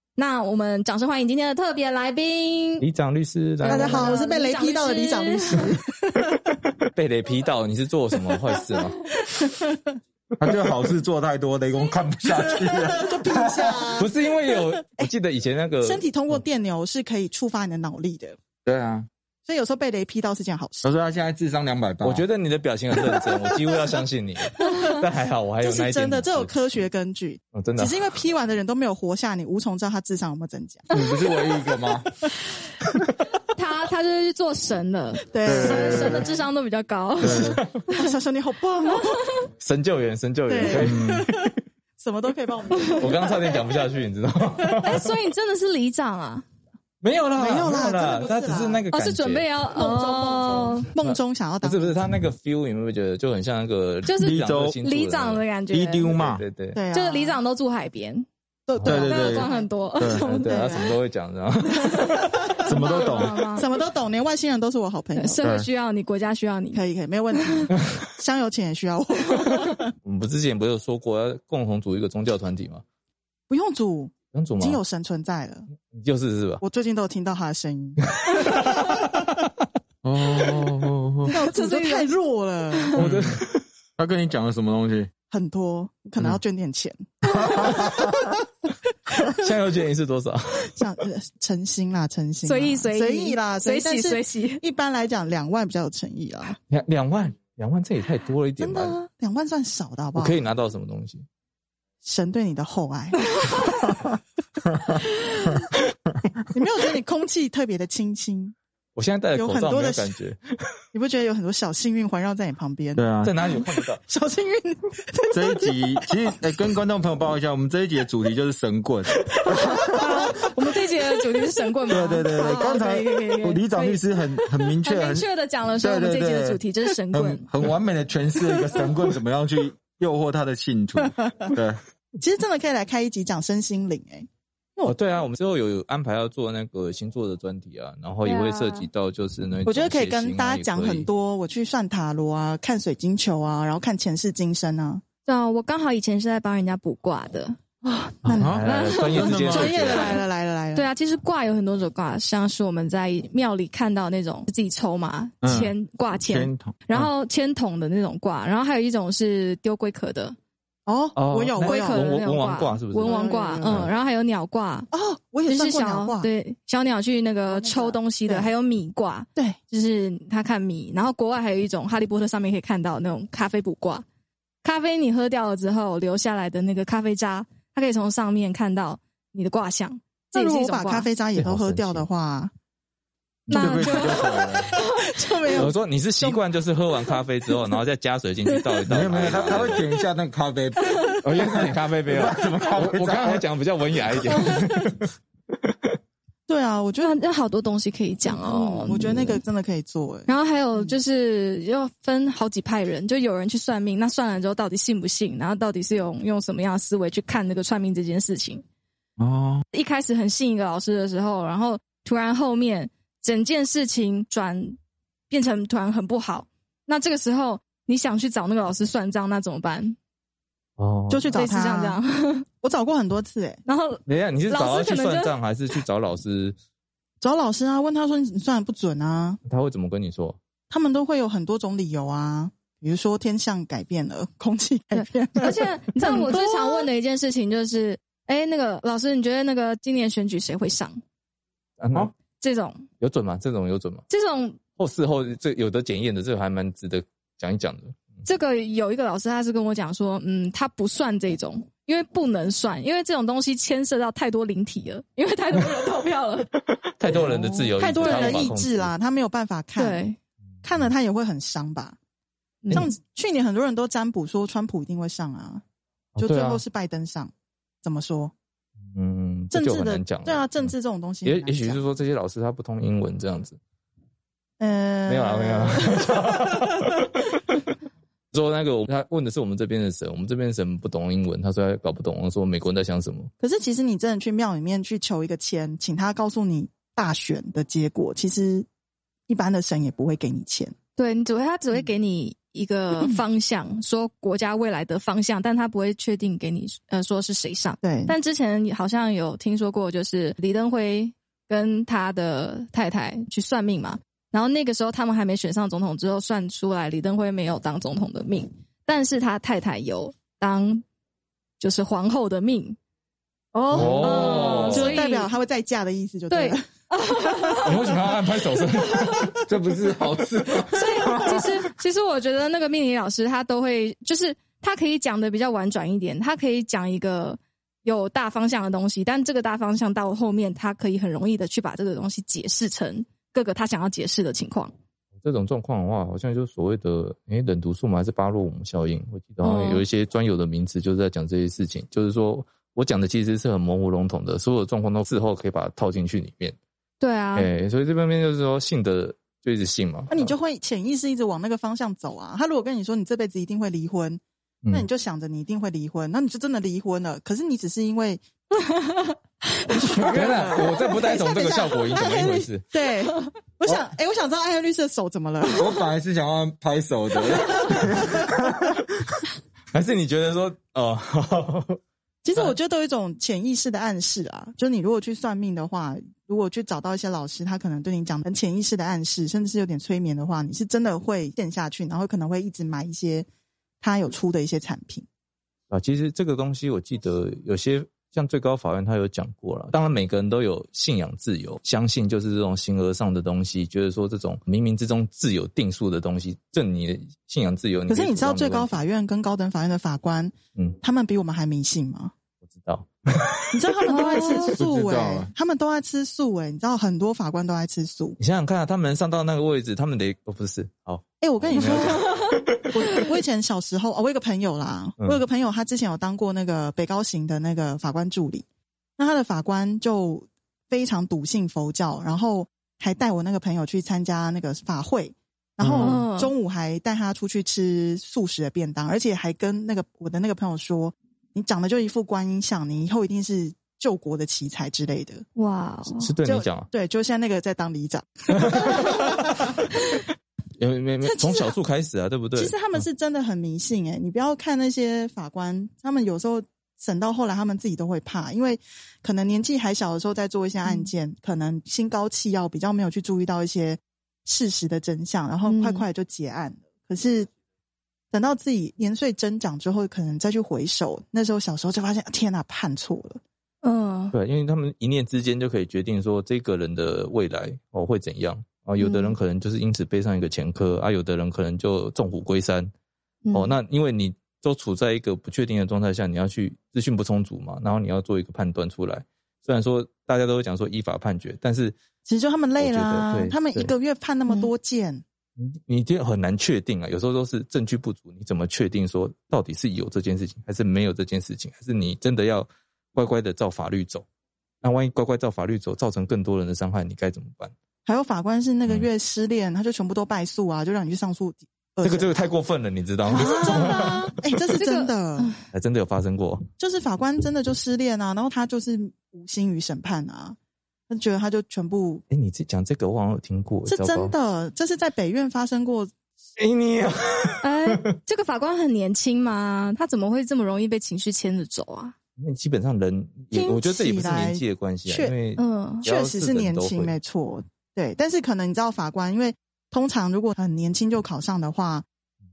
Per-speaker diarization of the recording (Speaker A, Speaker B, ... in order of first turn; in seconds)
Speaker A: 0.1-2.8, 3.6-5.7, 33.5-38.0, 38.9-39.2, 42.8-43.0, 44.8-46.5, 48.9-50.9, 54.0-56.1, 56.9-58.2, 58.9-60.8, 62.6-63.7, 65.2-66.8, 67.4-67.7, 81.3-82.1, 92.4-94.6, 119.5-124.2, 124.8-127.5, 138.2-138.9, 145.2-147.6, 148.6-160.3, 161.6-164.9, 165.4-174.0, 174.6-181.1, 183.5-185.6, 190.8-191.1, 197.0-199.4, 200.3-208.6, 209.7-214.8, 215.3-219.9, 221.3-222.4, 223.7-225.3, 234.9-241.0, 242.4-242.8, 244.1-244.6, 248.2-256.5, 258.0-258.5, 259.8-260.2, 262.6-262.9, 290.9-310.8, 311.6-312.8, 314.0-315.3, 316.3-318.0, 318.6-319.3, 320.7-334.7, 339.4-339.8, 347.0-347.5, 358.7-359.1, 403.9-404.6, 425.8-426.3, 435.4-436.1, 450.6-450.9, 455.4-455.8, 463.6-464.1, 468.8-469.1, 473.2-473.5, 503.1-504.0, 504.5-505.4, 517.4-521.9, 525.4-525.8
Speaker B: 2.8-4.2, 6.9-8.9, 14.0-16.0, 22.0-26.8, 27.5-28.1, 39.6-41.5, 42.9-45.0, 47.0-49.5, 51.0-55.4, 56.0-56.8, 60.2-62.3, 70.0-72.8, 74.3-74.8, 75.9-76.6, 78.2-79.1, 82.9-83.6, 89.3-90.7, 96.7-99.0, 100.1-101.2, 108.9-110.4, 113.2-114.0, 134.8-141.1, 148.3-150.2, 161.1-163.9, 181.3-182.1, 185.5-189.9, 191.2-195.0, 220.8-221.4, 224.1-226.6, 229.4-230.4, 241.8-242.1, 243.0-244.0, 244.8-248.2, 256.9-258.9, 266.1-266.6, 268.9-270.7, 271.2-273.6, 275.1-277.1, 278.3-283.3, 313.7-315.0, 317.6-319.4, 335.2-346.6, 347.3-350.3, 360.1-362.6, 369.7-371.8, 385.7-398.8, 402.5-403.4, 408.2-412.6, 435.9-436.7, 438.5-439.2, 440.6-442.8, 464.1-472.7, 473.3-481.8, 482.6-483.7, 485.4-494.0, 494.6-497.5, 501.8-504.1, 505.5-506.4, 512.1-514.1, 516.4-517.9, 522.2-527.0
Speaker C: 3.7-6.3, 9.4-9.8, 12.5-15.1, 15.8-18.4, 19.4-20.9, 24.6-24.9, 25.6-31.0, 35.3-36.3, 37.9-39.2, 40.5-43.6, 44.6-44.9, 47.3-48.8, 49.7-52.0, 56.7-57.4, 58.7-61.0, 62.0-62.8, 63.5-65.5, 66.7-69.9, 73.5-75.7, 76.6-78.0, 81.3-82.9, 85.3-88.4, 90.7-96.6, 98.6-100.4, 102.0-104.1, 106.5-108.5, 109.3-110.1, 110.9-116.1, 119.3-120.5, 131.0-131.5, 132.2-134.9, 139.6-145.0, 147.8-150.9, 160.8-162.1, 163.0-163.9, 164.9-166.3, 167.5-168.5, 180.3-182.5, 183.6-186.4, 196.5-197.1, 198.2-200.9, 221.1-222.0, 222.6-223.6, 227.2-229.4, 230.7-236.9, 257.1-260.0, 260.6-261.9, 262.7-265.6, 266.2-267.3, 267.8-268.3, 269.5-271.8, 274.6-276.2, 283.4-288.6, 289.3-290.7, 297.8-298.1, 313.5-316.6, 350.1-358.2, 359.6-365.8, 367.3-367.8, 372.2-383.3, 383.8-385.1, 397.9-402.1, 403.5-408.2, 411.2-418.4, 419.0-435.2, 436.2-439.2, 441.0-441.6, 442.3-457.3, 458.1-463.2, 482.1-485.0, 497.9-502.3, 503.0-505.3, 506.6-510.4, 510.9-512.0, 513.6-515.9, 523.3-525.2, 525.8-531.9
Speaker D: 10.4-13.9, 18.6-19.1, 20.8-22.2, 30.9-32.2, 35.4-36.3, 37.2-37.6, 40.7-41.3, 54.2-54.8, 55.7-56.4, 58.8-60.2, 62.6-63.4, 80.0-81.3, 83.0-83.3, 84.0-85.1, 87.3-88.1, 113.0-113.3, 115.3-119.2, 121.9-125.3, 125.8-126.6, 127.1-131.8, 148.4-150.0, 155.4-155.7, 156.2-156.8, 183.5-184.7, 188.9-193.4, 209.2-209.6, 313.7-314.8, 319.5-321.6, 365.6-368.6, 404.6-405.3, 425.6-426.0